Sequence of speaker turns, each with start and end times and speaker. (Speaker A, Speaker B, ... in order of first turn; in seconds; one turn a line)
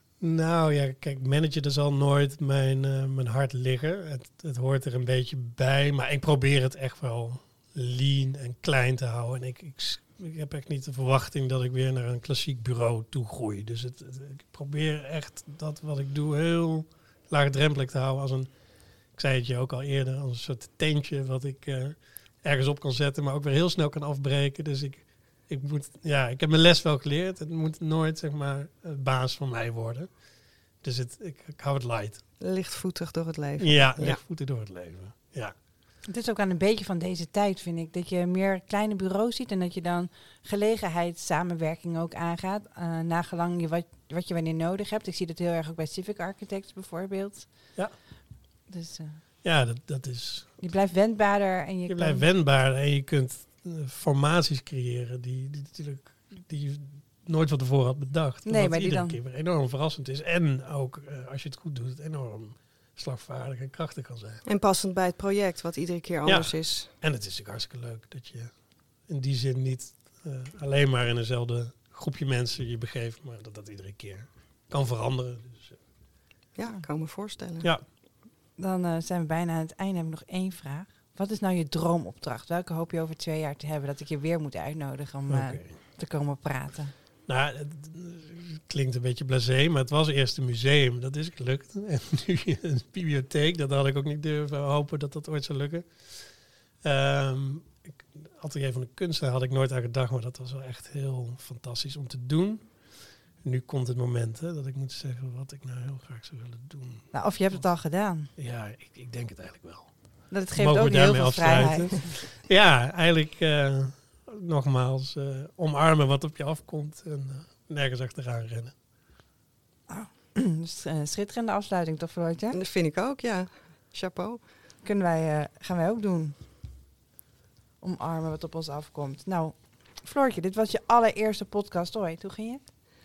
Speaker A: 0.2-18.5
Speaker A: 19.1-30.1
Speaker A: 30.8-32.2
Speaker B: 32.4-34.2
Speaker A: 33.6-35.5
Speaker C: 36.1-47.7
Speaker C: 48.7-49.2
Speaker A: 49.4-50.5
Speaker C: 50.6-52.3
Speaker A: 51.9-64.4
Speaker C: 58.5-59.2
Speaker B: 64.5-66.9
Speaker A: 66.2-68.5
Speaker A: 69.1-75.8
Speaker B: 76.5-77.7
Speaker C: 78.6-86.9
Speaker A: 85.3-85.8
Speaker A: 87.3-96.3
Speaker A: 96.8-102.8
Speaker A: 103.4-107.1
Speaker C: 107.1-108.3
Speaker A: 108.4-110.0
Speaker C: 110.3-112.0
Speaker A: 110.5-118.7
Speaker C: 119.9-122.6
Speaker B: 122.5-124.4
Speaker C: 124.8-126.4
Speaker C: 127.8-132.7